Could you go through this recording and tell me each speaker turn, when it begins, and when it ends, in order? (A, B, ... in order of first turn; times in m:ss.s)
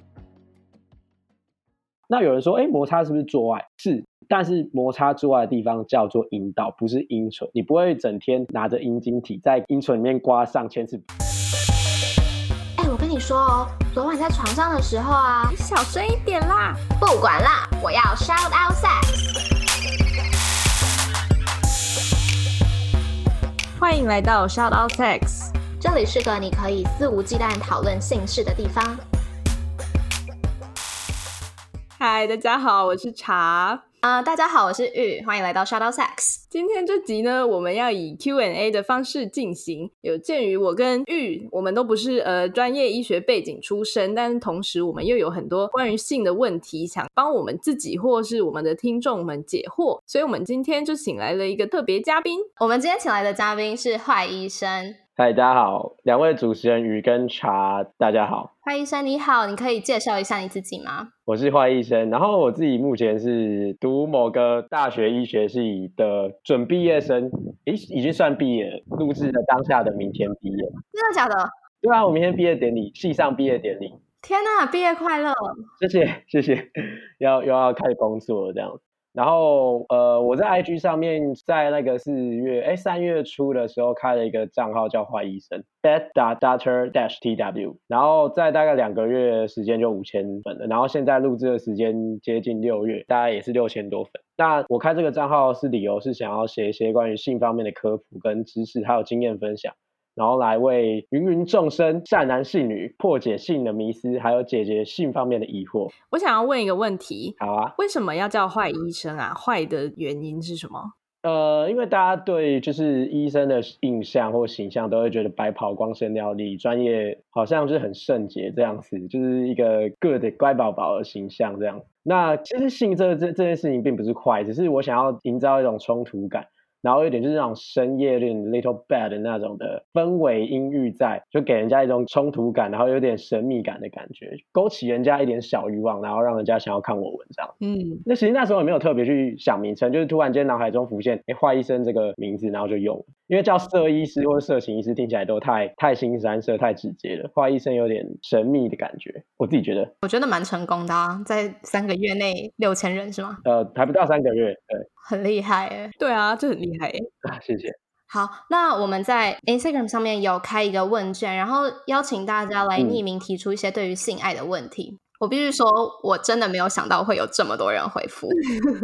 0:02.1-0:11.0 A
0:12.8-0:15.5 B
0:15.5-0:16.8 C
0:17.0-0:19.1 B
0:23.8-0:25.5 C
0:25.8-0:29.0 B
0:32.0-0:33.8 C
0:34.0-0:36.4 B
0:36.5-0:52.5 C
0:52.6-0:55.0 B
0:55.2-0:58.5 A
0:58.6-1:01.1 B
1:01.3-1:10.7 A
1:10.9-1:11.5 B
1:11.8-1:14.0 A
1:14.2-1:15.6 B
1:15.8-1:45.9 A
1:46.1-1:50.9 C
1:47.4-1:47.7 A
1:51.2-2:29.9 A
2:17.6-2:18.0 C
2:30.0-2:33.4 B
2:33.4-2:34.8 A
2:35.0-2:35.9 B
2:36.0-2:37.0 C
2:37.2-2:37.7 A
2:38.1-2:48.5 B
2:42.8-2:43.0 A